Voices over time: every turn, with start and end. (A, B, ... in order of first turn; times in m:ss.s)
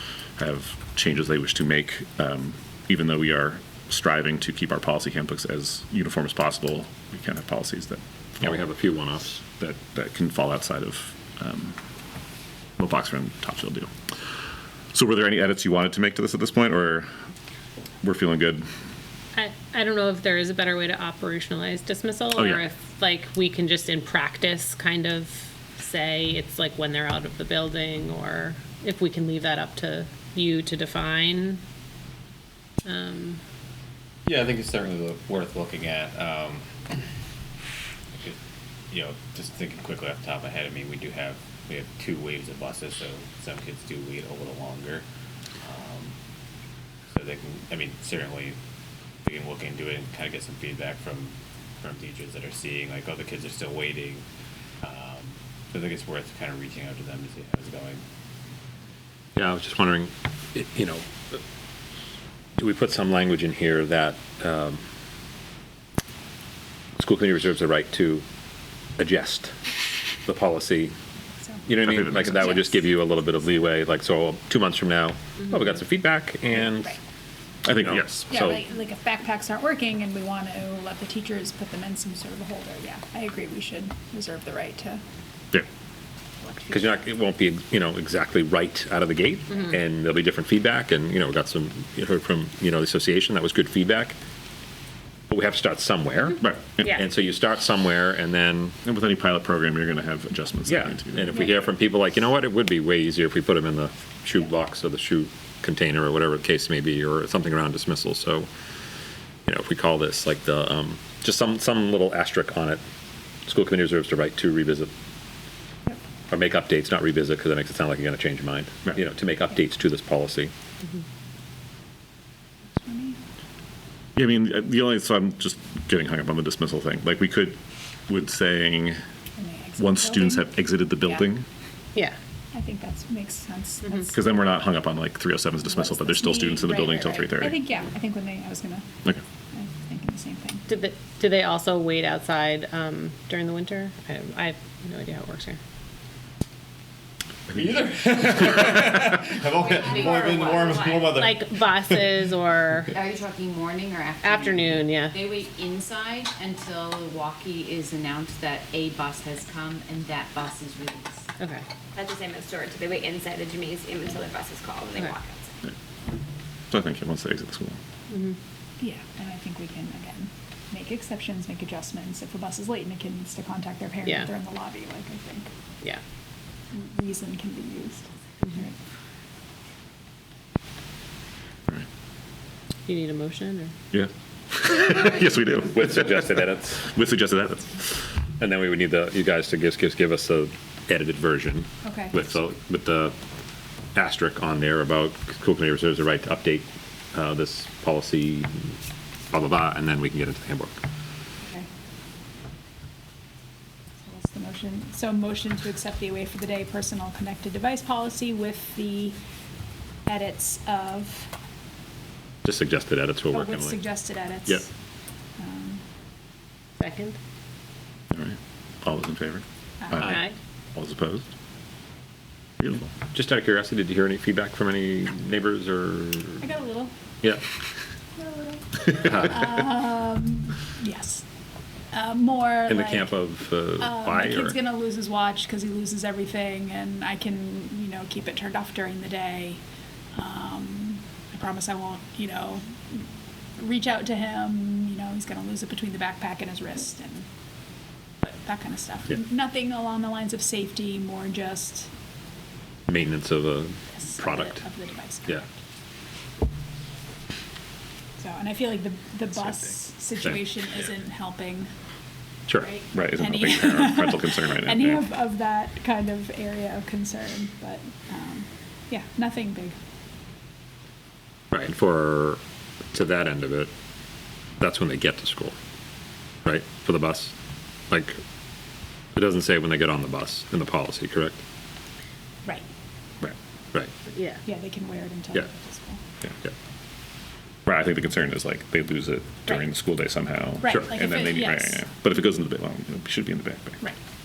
0:00.4-0:08.6 A
0:08.4-0:09.4 B
0:09.4-0:11.8 A
0:12.8-0:13.9 A
0:14.9-0:17.1 A
0:18.0-0:18.7 A
0:19.3-0:31.6 C
0:22.3-0:22.6 A
0:32.8-0:33.4 C
0:34.2-0:36.8 D
0:38.9-0:45.0 D
0:45.6-0:46.1 D
0:47.1-0:48.6 D
0:49.2-0:54.2 D
0:54.8-0:58.0 D
0:59.4-1:01.4 B
1:02.6-1:04.8 B
1:07.0-1:08.2 B
1:09.0-1:09.6 B
1:10.2-1:10.9 B
1:11.7-1:17.0 B
1:11.8-1:12.6 A
1:12.3-1:12.7 E
1:17.6-1:18.5 A
1:17.8-1:18.6 B
1:18.3-1:25.0 E
1:26.4-1:26.8 E
1:26.7-1:34.2 B
1:35.3-1:38.7 B
1:36.4-1:37.0 A
1:38.8-1:41.5 A
1:40.7-1:48.5 B
1:49.4-1:52.8 B
1:53.4-1:54.9 B
1:56.3-2:00.5 B
2:02.8-2:03.2 E
2:04.2-2:09.0 A
2:09.4-2:10.5 E
2:09.8-2:11.4 A
2:12.5-2:14.1 E
2:14.1-2:17.6 A
2:15.8-2:18.8 E
2:19.5-2:20.6 E
2:20.7-2:25.6 C
2:27.5-2:31.4 D
2:29.6-2:31.1 F
2:31.1-2:33.0 C
2:32.9-2:41.2 F
2:34.2-2:35.2 C
2:41.4-2:41.6 C
2:42.0-2:45.5 G
2:46.7-2:47.8 A
2:48.1-2:48.3 C
2:48.8-2:55.5 E
2:56.7-2:58.7 E
3:02.8-3:03.7 C
3:03.9-3:08.0 A
3:05.6-3:06.8 B
3:08.4-3:13.1 B
3:11.8-3:12.2 E
3:13.9-3:18.5 B
3:19.3-3:20.8 B
3:24.0-3:29.2 E
3:30.0-3:31.3 E
3:32.4-3:33.8 B
3:33.3-3:34.7 E
3:35.4-3:35.8 E
3:36.8-3:37.2 C
3:38.1-3:41.3 A
3:39.8-3:40.1 E
3:40.1-3:40.3 C
3:42.6-3:42.9 A
3:43.1-3:46.5 B
3:46.4-3:46.9 E
3:48.2-3:51.2 E
3:48.9-3:49.5 B
3:51.9-3:53.1 E
3:52.7-3:54.6 B
3:53.8-3:59.6 E
4:00.1-4:02.8 E
4:03.6-4:07.2 E
4:08.2-4:11.9 E
4:12.9-4:14.6 B
4:14.0-4:15.5 E
4:18.2-4:21.7 E
4:22.5-4:22.7 B
4:22.6-4:29.8 E
4:22.9-4:25.1 A
4:31.5-4:32.4 B
4:32.9-4:33.7 B
4:34.6-4:35.6 B
4:36.4-4:37.3 B
4:37.9-4:38.2 B
4:39.1-4:41.4 B
4:44.1-4:44.4 C
4:44.4-4:46.0 E
4:47.6-4:53.8 A
4:50.6-4:51.8 E